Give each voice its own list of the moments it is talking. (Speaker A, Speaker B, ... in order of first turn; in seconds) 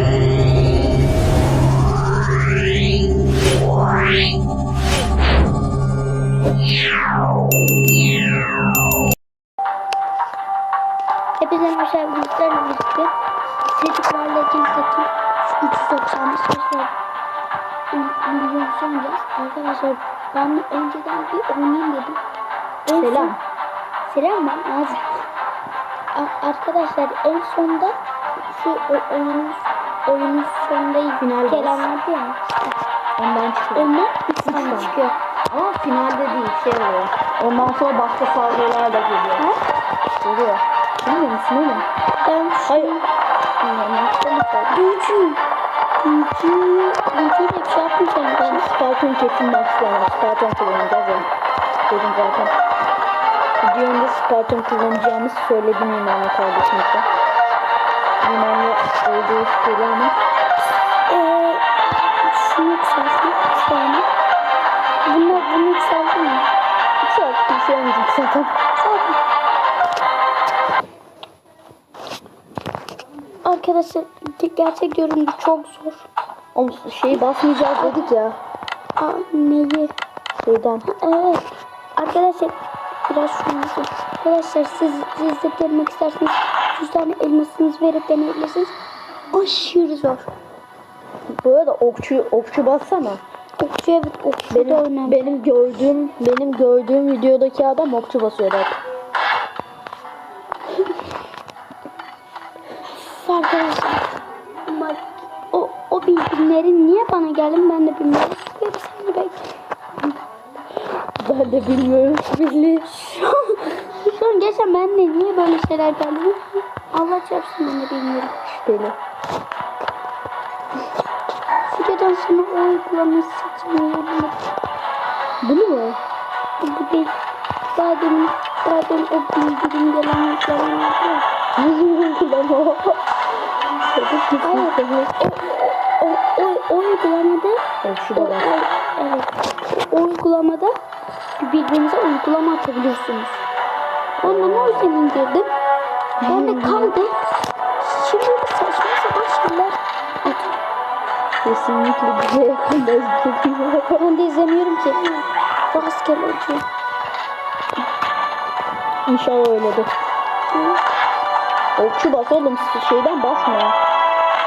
Speaker A: 11.4-13.1, 13.7-16.9, 17.9-22.2, 22.9-23.3, 24.1-25.0, 26.1-32.7, 33.7-35.1, 42.2-43.0, 44.7-45.4, 46.0-48.6, 61.1-61.6, 62.2-64.1, 65.0-66.5, 68.8-69.2, 73.4-76.1, 77.8-78.1, 79.0-79.9, 80.8-81.4, 82.0-82.5, 83.1-88.7, 89.3-90.3, 93.6-95.2, 103.0-104.0, 104.7-109.4, 112.8-118.3, 121.7-124.4, 126.6-127.1, 127.7-131.2, 134.4-137.6, 138.1-140.7, 141.4-143.4, 144.2-145.5, 146.2-147.2, 147.8-150.6, 154.0-156.6, 160.5-160.8
Speaker B: 22.9-23.4, 31.2-31.9, 33.2-34.9, 35.5-39.5, 40.2-41.9, 42.7-43.0, 43.6-44.9, 48.4-51.3, 51.9-52.5, 53.6-57.1, 58.2-60.2, 65.3-65.5, 67.0-68.5, 76.5-78.4, 80.4-80.9, 91.3-93.2, 94.5-98.8, 111.2-112.9, 118.5-119.0, 125.4-126.0, 131.6-133.0, 133.9-135.2, 137.8-138.5, 144.2-144.9, 146.2-146.9, 151.4-154.0, 159.1-159.9, 161.8-163.8